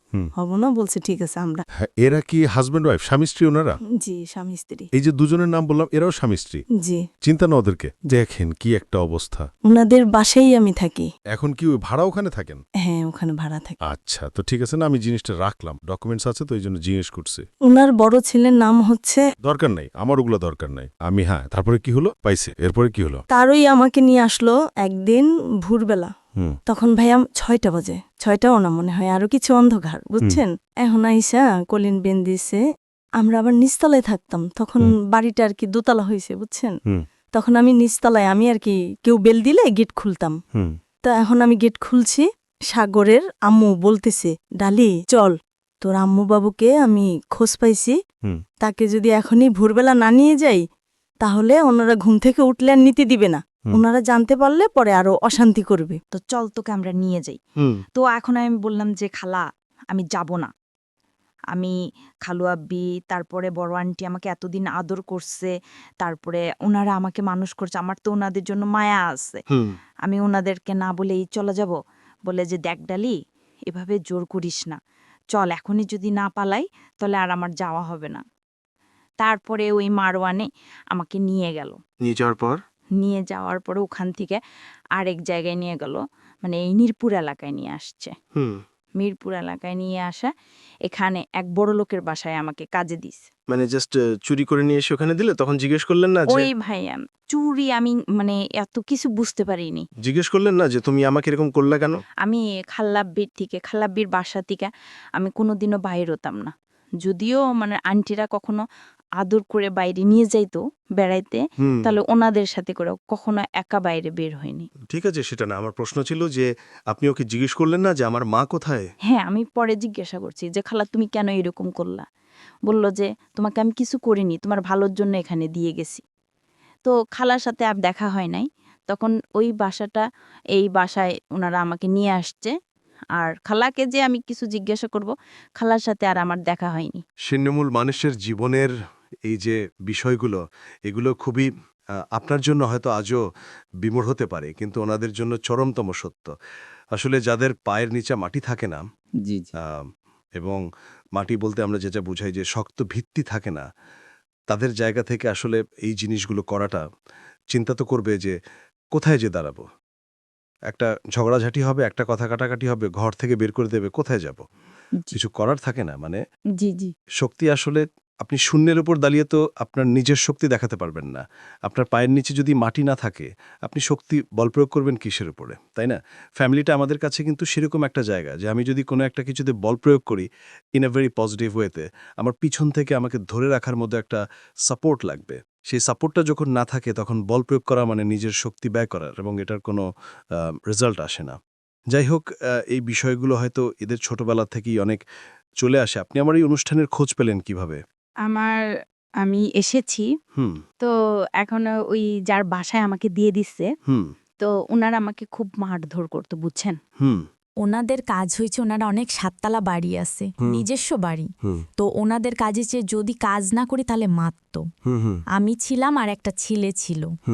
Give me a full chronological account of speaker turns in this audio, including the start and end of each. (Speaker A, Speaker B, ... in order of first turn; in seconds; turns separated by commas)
Speaker A: 0.4-1.6, Speaker B: 1.8-3.8, Speaker A: 4.0-4.9, Speaker B: 4.9-6.6, Speaker A: 6.8-7.0, Speaker B: 7.2-9.5, Speaker A: 9.7-11.1, Speaker B: 11.3-12.6, Speaker A: 12.8-13.8, Speaker B: 13.8-17.4, Speaker A: 17.7-19.2, Speaker B: 19.4-23.2, Speaker A: 23.3-26.1, Speaker A: 26.7-32.6, Speaker A: 33.2-36.7, Speaker A: 37.3-40.4, Speaker A: 41.0-48.0, Speaker A: 48.6-50.6, Speaker A: 51.2-56.0, Speaker C: 56.1-57.4, Speaker C: 57.9-60.5, Speaker C: 62.2-69.4, Speaker C: 70.0-71.7, Speaker C: 72.2-73.2, Speaker C: 73.7-74.8, Speaker C: 75.3-78.2, Speaker C: 79.2-81.8, Speaker D: 82.0-82.5, Speaker C: 83.0-84.4, Speaker C: 85.0-88.1, Speaker D: 88.3-88.6, Speaker C: 89.0-90.3, Speaker C: 90.9-93.2, Speaker D: 93.5-96.5, Speaker C: 96.3-99.8, Speaker D: 100.0-102.0, Speaker C: 102.2-108.6, Speaker C: 109.2-114.7, Speaker D: 111.7-111.9, Speaker D: 114.9-116.4, Speaker D: 117.0-118.8, Speaker E: 117.2-117.7, Speaker C: 119.1-122.0, Speaker C: 122.7-126.0, Speaker C: 126.9-130.0, Speaker C: 130.6-132.5, Speaker C: 133.2-137.0, Speaker E: 137.2-138.7, Speaker E: 139.2-141.5, Speaker E: 142.1-143.2, Speaker E: 143.8-146.3, Speaker E: 146.9-148.8, Speaker E: 149.6-150.6, Speaker E: 151.1-153.7, Speaker E: 154.5-156.8, Speaker E: 157.5-158.4, Speaker E: 158.9-159.7, Speaker E: 160.7-164.4, Speaker E: 165.1-166.2, Speaker E: 167.2-189.9, Speaker E: 190.4-191.4, Speaker E: 191.9-195.0, Speaker E: 195.6-197.8, Speaker C: 198.3-198.6, Speaker C: 199.2-200.0, Speaker C: 201.4-203.7, Speaker C: 204.4-206.8, Speaker C: 207.6-214.6, Speaker C: 215.4-217.1